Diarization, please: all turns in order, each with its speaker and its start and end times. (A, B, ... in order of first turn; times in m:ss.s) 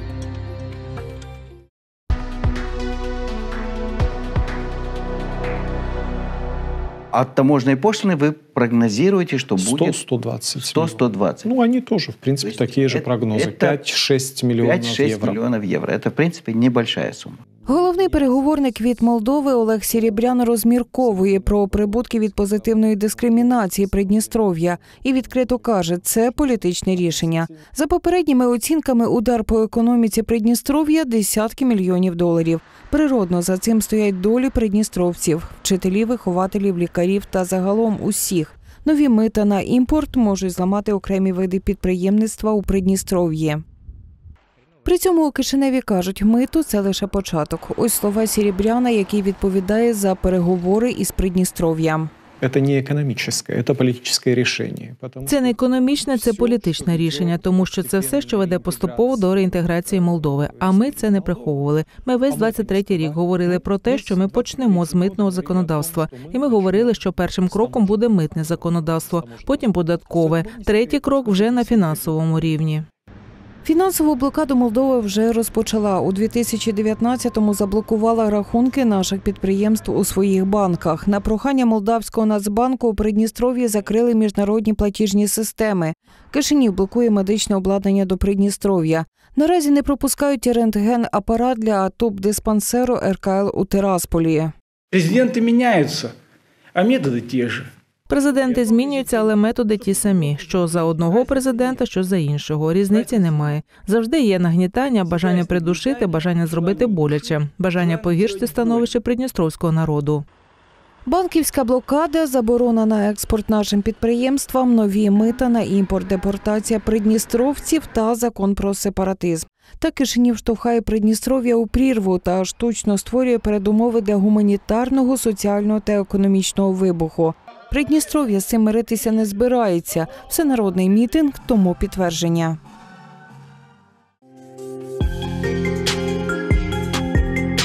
0:07.1-0:10.0 A
0:09.5-0:15.4 B
0:10.6-0:11.5 A
0:12.4-0:13.8 A
0:14.6-0:17.4 A
0:17.7-0:43.6 C
0:44.9-0:52.1 C
0:52.4-0:55.6 B
0:55.2-1:12.9 D
0:56.2-0:59.4 B
1:00.4-1:01.6 B
1:02.3-1:08.0 B
1:09.1-1:12.2 B
1:13.6-1:34.5 C
1:34.9-1:36.1 E
1:36.8-1:37.7 E
1:38.1-1:50.2 D
1:51.1-2:12.6 C